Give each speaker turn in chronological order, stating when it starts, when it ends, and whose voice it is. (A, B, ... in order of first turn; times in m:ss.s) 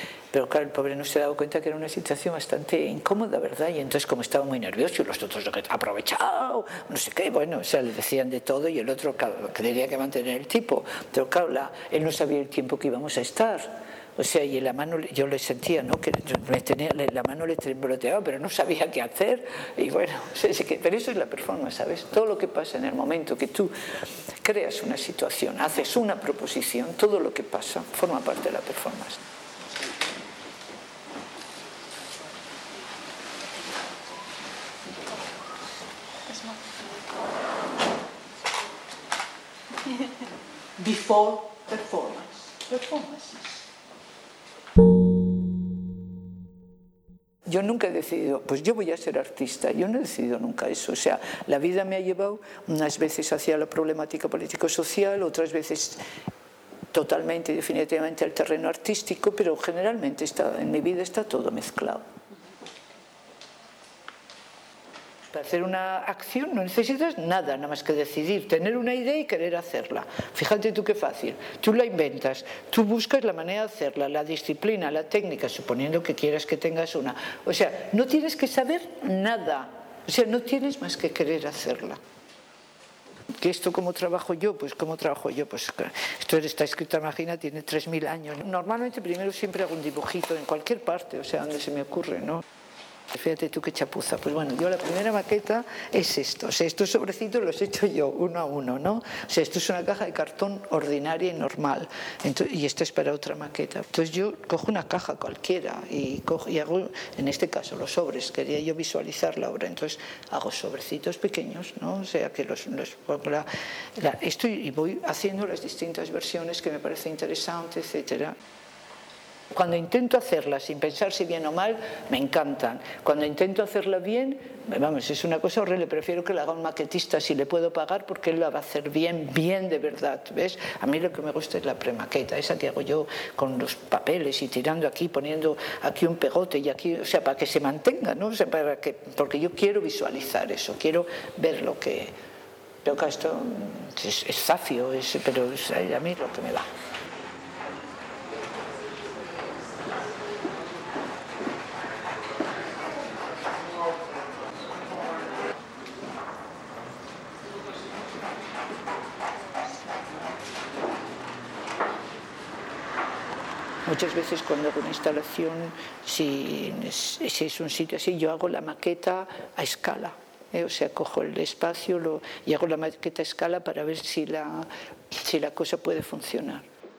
0:00.3-0:23.7 A
0:24.4-0:29.2 A
0:40.8-0:43.6 A
0:47.5-0:56.0 A
0:56.9-1:02.0 A
1:05.3-1:22.0 A
1:23.4-1:32.4 A
1:33.1-1:58.4 A
1:59.5-2:22.1 A
2:22.8-2:26.7 A
2:43.9-2:56.7 A